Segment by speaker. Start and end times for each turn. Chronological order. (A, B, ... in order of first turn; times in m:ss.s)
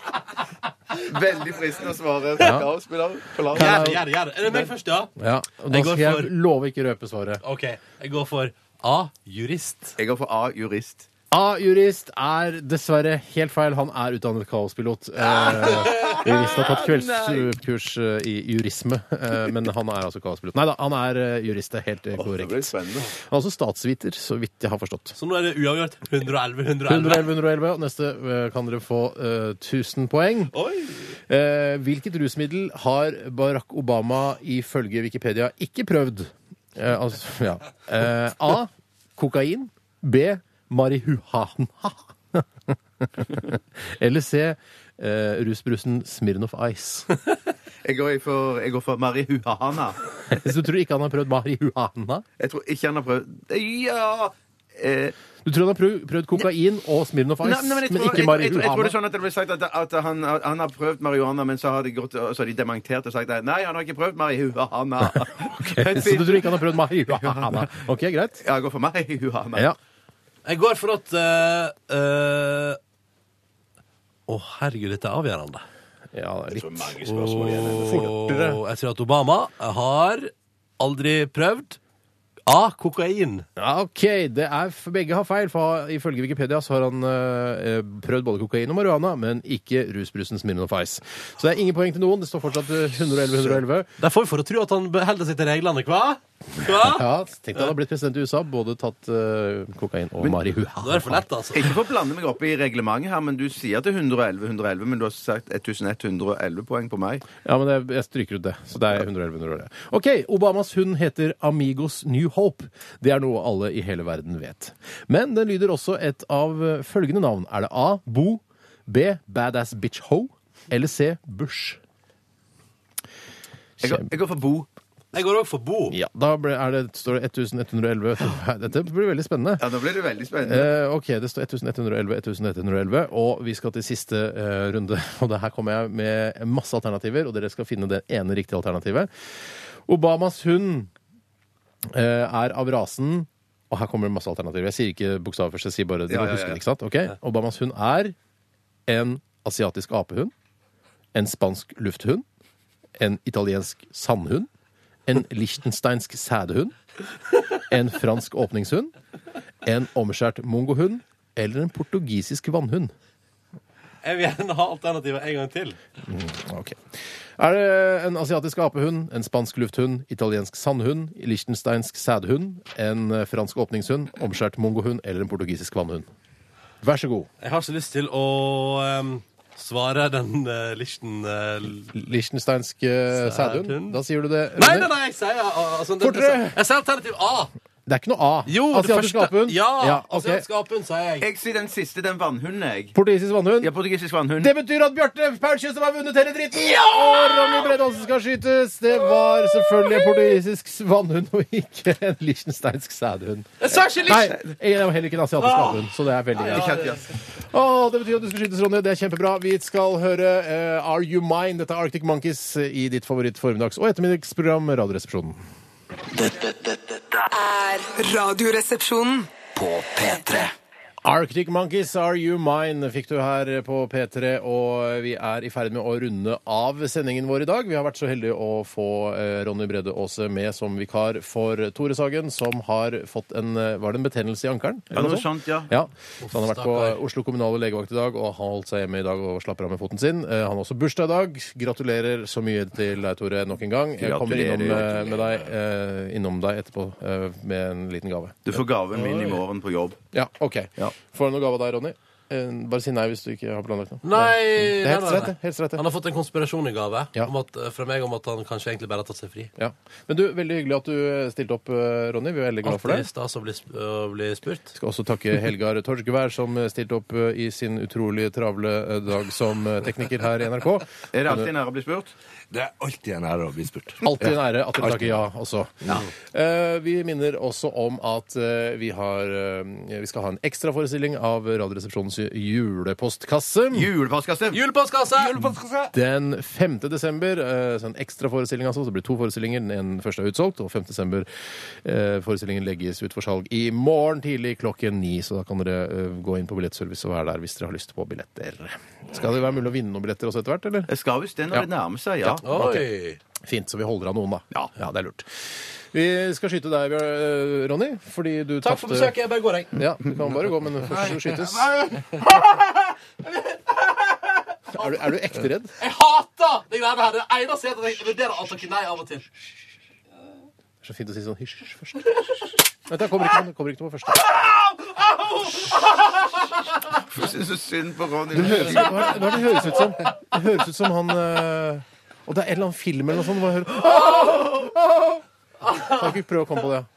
0:01.0-0:04.0 A
0:02.4-0:02.7 B
0:03.5-0:05.1 C
0:03.6-0:04.0 B
0:05.2-0:07.4 B
0:05.7-0:06.3 C
0:07.4-0:10.0 C
0:10.0-0:11.1 A
0:11.3-0:25.2 B
0:15.2-0:17.5 A
0:22.2-0:23.1 A
0:25.2-0:27.3 C
0:26.9-0:30.5 B
0:30.5-0:31.0 C
0:31.3-0:47.1 B
0:47.8-0:50.0 A
0:50.2-0:52.2 B
0:52.4-0:55.2 A
0:55.4-0:59.0 B
0:57.4-1:07.7 A
1:05.2-1:08.4 B
1:08.4-1:09.7 A
1:10.4-1:12.8 C
1:14.3-1:15.6 C
1:16.1-1:17.0 B
1:16.5-1:18.1 A
1:17.0-1:21.8 C
1:17.8-1:18.6 B
1:22.5-1:23.5 C
1:23.6-1:33.9 B
1:34.0-1:37.1 C
1:36.6-1:41.2 B
1:40.8-1:41.7 C
1:41.5-1:47.3 A
1:47.4-2:01.8 B
2:03.8-2:04.7 A
2:05.1-2:06.0 C
2:05.9-2:09.7 B
2:09.6-2:10.7 A
2:10.4-2:19.1 B
2:19.9-2:20.9 B
2:21.9-2:28.2 B
2:26.1-2:26.6 A
2:28.9-2:30.3 B
2:31.1-2:32.2 B
2:33.0-2:34.5 B
2:35.1-2:36.8 B
2:37.6-2:38.9 B
2:39.6-2:42.9 B
2:44.0-2:45.8 C
2:46.0-2:46.8 B
2:47.4-2:56.1 B
2:56.8-2:57.3 B
2:57.4-3:01.9 C
3:01.9-3:04.9 B
3:03.1-3:04.0 C
3:04.6-3:07.5 C
3:06.0-3:06.6 B
3:07.9-3:10.4 B
3:08.5-3:11.3 C
3:11.2-3:13.0 A
3:12.9-3:13.7 B
3:13.6-3:14.5 A
3:14.4-3:26.8 B
3:23.6-3:24.4 C
3:25.4-3:25.8 C
3:26.4-3:26.9 C
3:26.4-3:27.1 A
3:27.4-3:35.4 B
3:36.1-3:37.2 D
3:37.3-3:39.3 E
3:39.6-3:40.5 D
3:41.0-4:08.6 B
3:54.9-3:55.7 A
3:56.2-3:57.0 C
4:04.0-4:05.4 A
4:08.5-4:10.0 A
4:08.9-4:09.4 C
4:10.1-4:15.8 B
4:14.0-4:19.5 C
4:19.6-4:23.0 B
4:22.6-4:24.7 C
4:24.8-4:31.5 B
4:31.1-4:32.1 A
4:32.5-4:35.2 F
4:34.0-4:43.9 B
4:43.7-4:44.6 A
4:44.5-4:45.4 C
4:45.1-4:45.9 F
4:45.9-4:51.3 B
4:51.8-5:00.9 B
5:00.9-5:02.4 A
5:02.2-5:02.9 B
5:02.4-5:03.2 C
5:03.4-5:09.2 B
5:08.6-5:09.7 C
5:09.7-5:12.0 B
5:11.8-5:14.2 C
5:14.7-5:15.7 B
5:15.8-5:19.3 C
5:20.8-5:22.1 B
5:22.9-5:24.2 B
5:24.3-5:26.2 C
5:27.0-5:29.4 A
5:28.3-5:35.2 B
5:35.8-5:36.9 B